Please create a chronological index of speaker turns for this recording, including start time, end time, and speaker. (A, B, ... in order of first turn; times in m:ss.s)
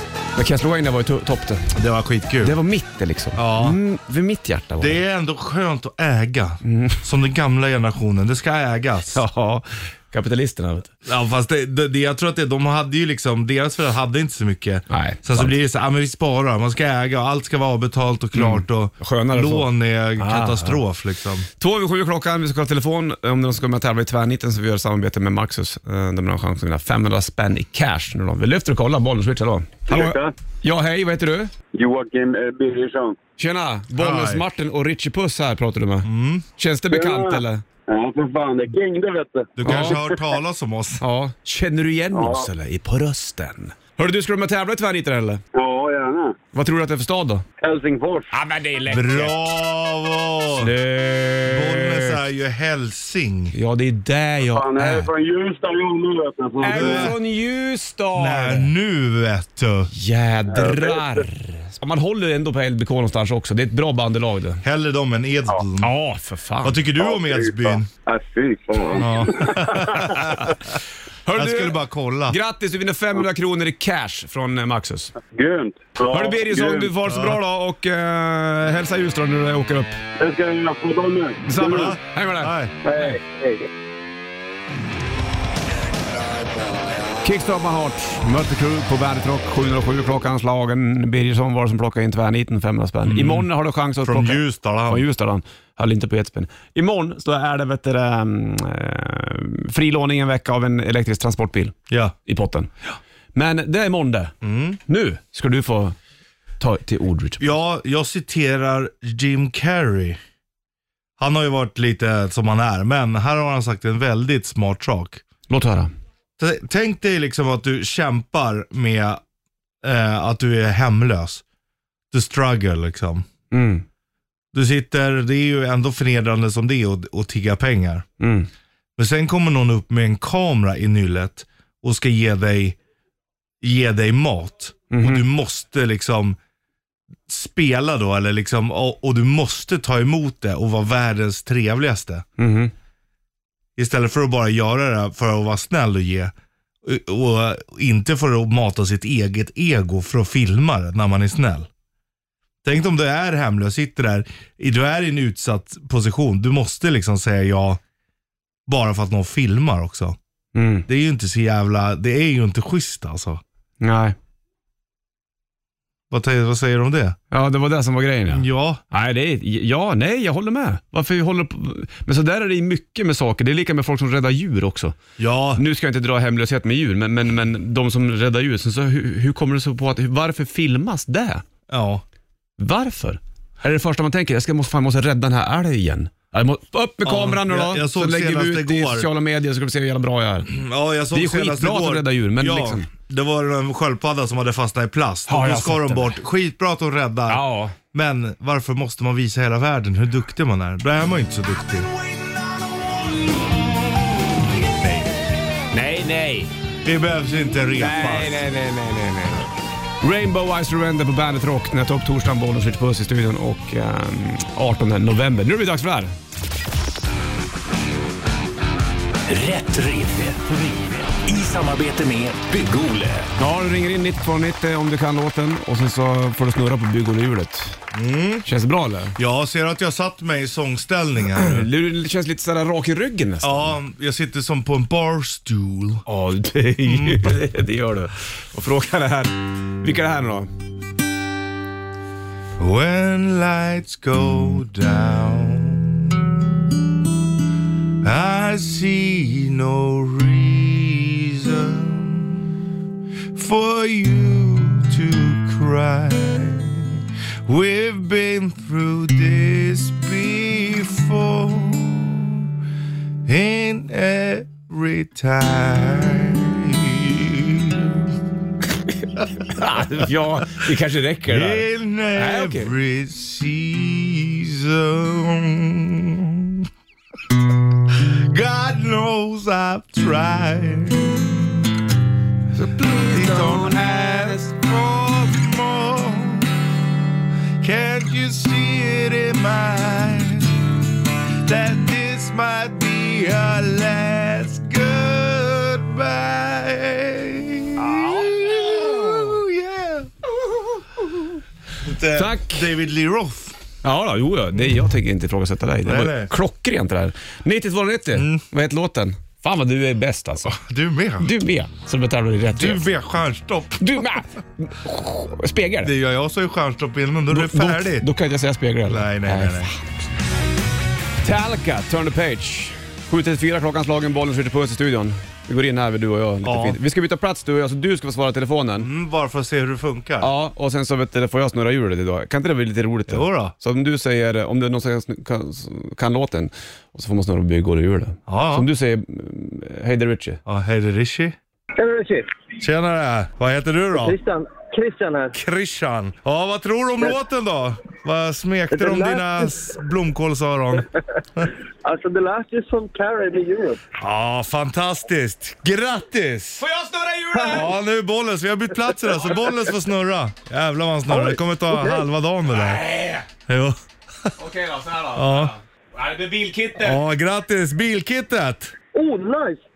0:00.4-0:01.7 A
0:01.7-0:02.6 B
0:02.4-0:05.0 A
0:03.4-0:03.8 B
0:04.8-0:09.2 B
0:06.6-0:07.0 A
0:09.1-0:10.9 A
0:11.0-0:21.5 B
0:14.9-0:15.5 A
0:18.4-0:20.8 A
0:21.6-0:31.5 A
0:29.9-0:30.3 C
0:31.7-0:33.2 C
0:33.4-0:37.6 A
0:34.0-0:34.4 B
0:36.0-0:36.4 B
0:36.9-0:40.1 C
0:39.6-0:41.0 B
0:39.6-0:40.0 A
0:41.0-0:45.4 A
0:42.1-0:42.5 C
0:45.6-0:46.4 C
0:46.5-0:47.4 A
0:47.6-0:48.3 C
0:48.3-0:49.5 A
0:48.9-0:50.7 B
0:50.6-0:52.3 A
0:51.4-0:53.5 B
0:53.5-0:55.1 A
0:54.5-0:57.1 C
0:56.6-0:58.7 A
0:56.7-0:57.2 B
0:58.2-0:59.9 B
0:59.9-1:04.6 A
1:00.5-1:01.0 C
1:04.6-1:05.9 B
1:05.8-1:06.8 A
1:06.6-1:07.9 B
1:07.0-1:10.4 C
1:09.0-1:10.6 B
1:10.3-1:10.5 A
1:11.2-1:15.1 A
1:11.3-1:12.4 B
1:15.3-1:16.9 C
1:16.0-1:20.0 A
1:17.1-1:17.4 B
1:20.2-1:21.9 C
1:21.4-1:23.2 A
1:21.6-1:22.7 B
1:22.8-1:23.7 C
1:27.2-1:42.7 A
1:33.0-1:33.5 B
1:34.0-1:35.0 B
1:41.9-1:42.2 B
1:43.3-1:44.4 A
1:44.4-1:44.8 B
1:44.9-1:46.0 A
1:46.6-1:47.5 A
1:47.4-1:50.2 B
1:51.2-1:55.2 B
1:55.5-1:55.9 A
1:56.4-1:59.2 B
1:59.8-2:01.4 B
2:02.1-2:03.3 B
2:03.5-2:03.8 A
2:04.5-2:08.1 B
2:08.2-2:08.5 A
2:09.0-2:12.8 B
2:13.6-2:16.4 B
2:14.9-2:15.3 A
2:17.3-2:22.2 B
2:22.4-2:22.7 A
2:23.8-2:26.3 B
2:26.8-2:31.7 B
2:32.6-2:37.8 B
2:38.7-2:40.2 B
2:40.6-2:40.9 A
2:40.9-2:43.4 B
2:43.8-2:44.2 A
2:46.1-2:47.2 B
2:47.3-2:55.0 A
2:48.3-2:48.8 B
2:55.2-2:55.6 B
2:55.6-3:01.4 A
3:01.7-3:02.0 B
3:02.6-3:10.6 A
3:07.0-3:09.1 B
3:10.5-3:21.9 B
3:11.1-3:12.9 A
3:15.3-3:16.2 A
3:17.3-3:17.8 A
3:24.6-3:25.1 B
3:25.7-3:26.5 A
3:26.8-3:28.4 B
3:27.7-3:29.5 A
3:30.0-3:36.1 A
3:39.3-3:43.3 D
3:43.4-3:47.8 A
3:47.9-3:48.4 B
3:48.4-3:49.2 A
3:49.2-3:51.7 B
3:51.4-3:53.8 A
3:53.4-3:56.0 B
3:56.1-4:00.5 A
3:56.8-3:57.4 B
4:02.6-4:06.4 B
4:08.0-4:12.5 B
4:13.3-4:22.5 B
4:23.2-4:28.2 B
4:29.2-4:30.0 B
4:29.4-4:32.7 A
4:31.3-4:36.7 B
4:37.9-4:41.6 B
4:42.6-4:44.4 A
4:42.8-4:46.6 B
4:47.6-4:50.6 B
4:51.3-5:00.1 B
4:57.8-4:58.3 A
5:01.8-5:03.6 B
5:02.1-5:02.7 A
5:03.8-5:10.6 A
5:05.8-5:06.3 B
5:08.2-5:08.4 B
5:10.5-5:11.3 B
5:11.2-5:12.8 A
5:12.5-5:14.0 B
5:13.8-5:15.9 A
5:15.8-5:18.1 B
5:17.3-5:19.9 A
5:18.9-5:19.7 B
5:21.2-5:28.9 A
5:26.4-5:26.8 B
5:28.8-5:30.3 B
5:30.2-5:40.4 A
5:33.1-5:33.5 B
5:38.3-5:38.7 B
5:40.5-5:41.4 B
5:41.8-5:42.3 E
5:42.6-5:44.2 B
5:44.0-5:45.4 E
5:45.3-5:51.5 B
5:48.7-5:49.4 E
5:51.8-5:53.8 E
5:54.0-5:56.6 B
5:56.6-5:57.7 A
5:57.4-6:02.8 B
6:01.1-6:02.0 E
6:02.5-6:03.3 A
6:03.5-6:04.3 B
6:04.4-6:07.0 A
6:05.2-6:05.5 B
6:06.8-6:08.7 B
6:09.0-6:09.6 E